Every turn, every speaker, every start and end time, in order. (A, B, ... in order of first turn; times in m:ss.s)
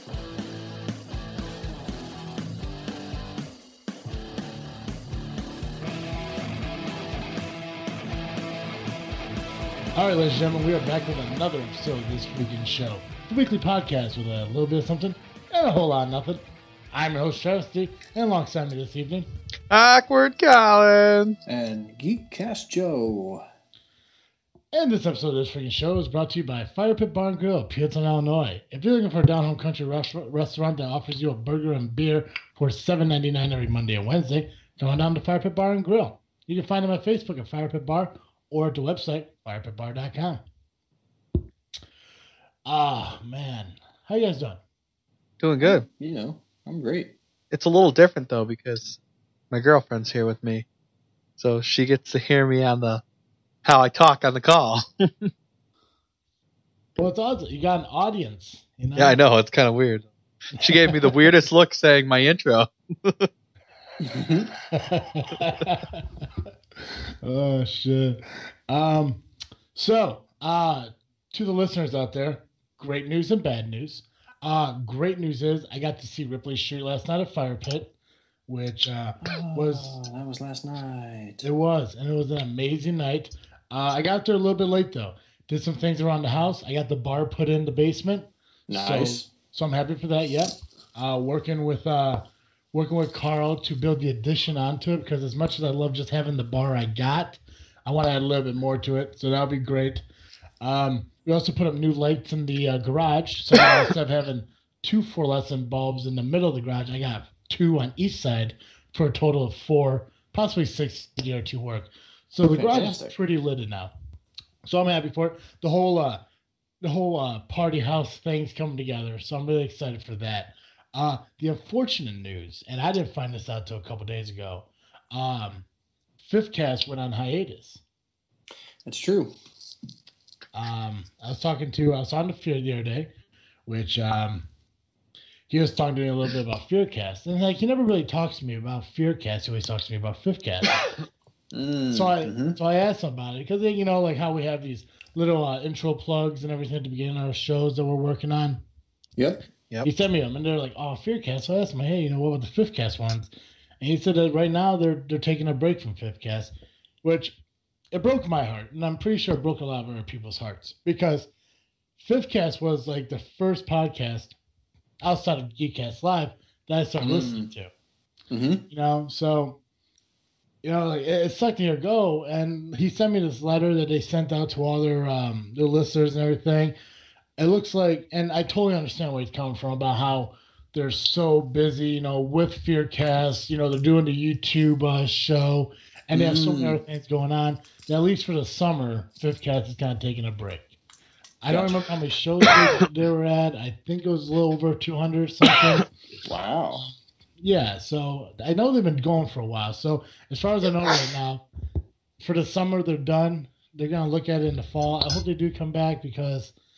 0:10.0-0:19.3 A
0:19.7-0:21.4 B
0:21.5-0:23.4 C
0:24.7-0:40.4 A
0:42.7-0:44.6 A
0:45.4-0:45.8 B
0:45.6-0:47.1 C
0:47.5-0:49.0 B
0:49.5-0:50.7 B
0:51.4-0:53.0 B
0:53.6-0:55.3 B
0:57.0-0:59.2 A
0:59.0-1:03.3 B
1:00.6-1:01.1 A
1:04.0-1:04.5 C
1:04.5-1:09.2 A
1:09.8-1:17.9 A
1:18.5-1:20.0 A
1:19.2-1:21.4 C
1:21.4-1:40.0 A
1:28.7-1:29.3 C
1:40.6-1:53.9 A
1:52.5-1:53.2 C
1:54.7-1:56.2 A
1:56.8-2:05.6 A
2:06.2-2:07.8 A
2:08.8-2:09.4 C
2:10.5-2:13.1 A
2:13.7-2:14.5 A
2:15.5-2:20.8 A
2:21.5-2:22.6 C
2:21.9-2:28.6 A
2:29.8-2:33.3 A
2:33.8-2:36.5 A
2:37.0-2:37.4 A
2:37.9-2:41.3 A
2:42.0-2:44.4 A
2:45.0-2:47.7 A
2:47.0-2:47.5 C
2:48.3-2:48.6 C
2:48.7-2:49.6 A
2:50.6-2:56.8 A
2:57.4-3:10.7 A
3:06.1-3:06.8 C
3:11.4-3:15.9 A
3:11.5-3:11.8 C
3:16.2-3:16.8 C
3:17.4-3:21.4 A
3:22.2-3:26.5 A